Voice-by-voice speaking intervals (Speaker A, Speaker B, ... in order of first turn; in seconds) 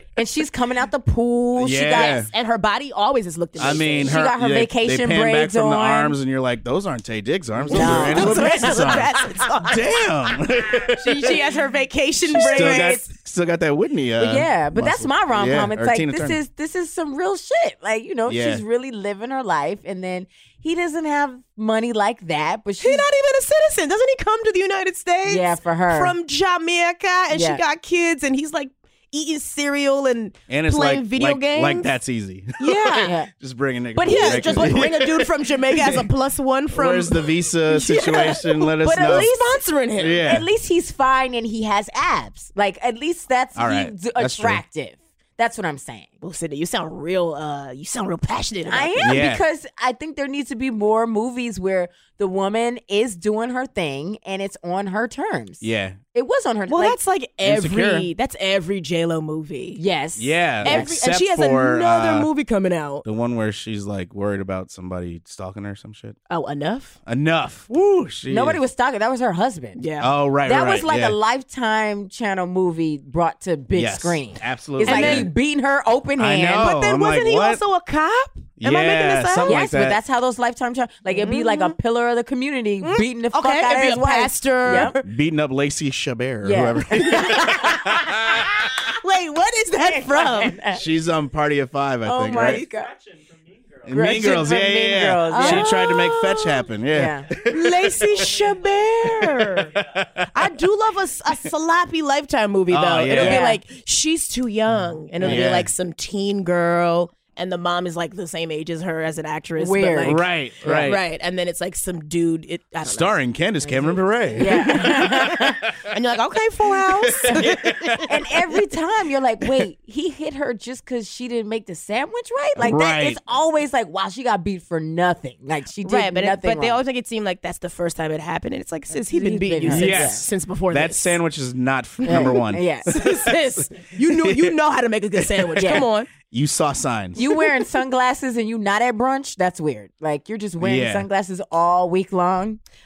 Speaker A: 0.1-2.2, 3.6-6.2, 7.7-9.0, 12.3-13.0, 14.2-23.1, 25.2-26.1, 27.3-27.6, 33.0-33.3, 34.2-34.7, 38.8-39.3, 40.2-46.1, 48.7-55.6, 56.1-57.0, 59.8-60.9, 68.3-69.8, 70.4-76.7, 79.4-85.0, 86.4-88.7, 89.8-90.8, 92.0-92.9, 93.9-95.7, 96.9-97.3, 103.1-103.6, 105.2-105.6, 109.6-110.9, 113.6-115.6, 117.3-126.8, 128.9-130.2, 132.1-133.2, 135.6-135.9, 137.1-142.6
Speaker B: 1.6-2.3, 3.6-11.4, 12.3-16.4, 18.3-18.6, 30.5-36.0, 36.7-39.3, 40.0-40.5, 43.5-44.6, 49.0-49.4, 55.6-56.0, 57.4-58.1, 60.2-62.3, 63.0-66.2, 67.0-68.6, 70.0-71.2, 73.7-75.3, 76.2-77.6, 78.6-80.0, 84.7-88.5, 90.7-92.7, 93.8-98.3, 99.2-100.2, 102.7-103.5, 105.2-105.7, 110.0-111.0, 112.8-115.8, 116.8-118.1, 122.5-123.2, 129.7-134.6, 136.2-137.2, 140.6-141.1
Speaker C: 1.9-4.1, 7.7-9.8, 10.9-13.0, 22.8-31.9, 32.6-33.1, 34.0-40.3, 46.2-49.2, 56.7-59.8, 60.6-63.0, 66.3-67.0, 69.8-70.1, 74.8-75.3, 76.6-79.7, 81.1-81.8, 82.8-85.0, 89.0-90.6, 95.3-96.7, 97.4-99.8, 100.3-110.3, 110.8-113.1, 114.4-114.7, 115.9-118.0, 125.8-131.2, 132.1-132.3, 132.9-136.1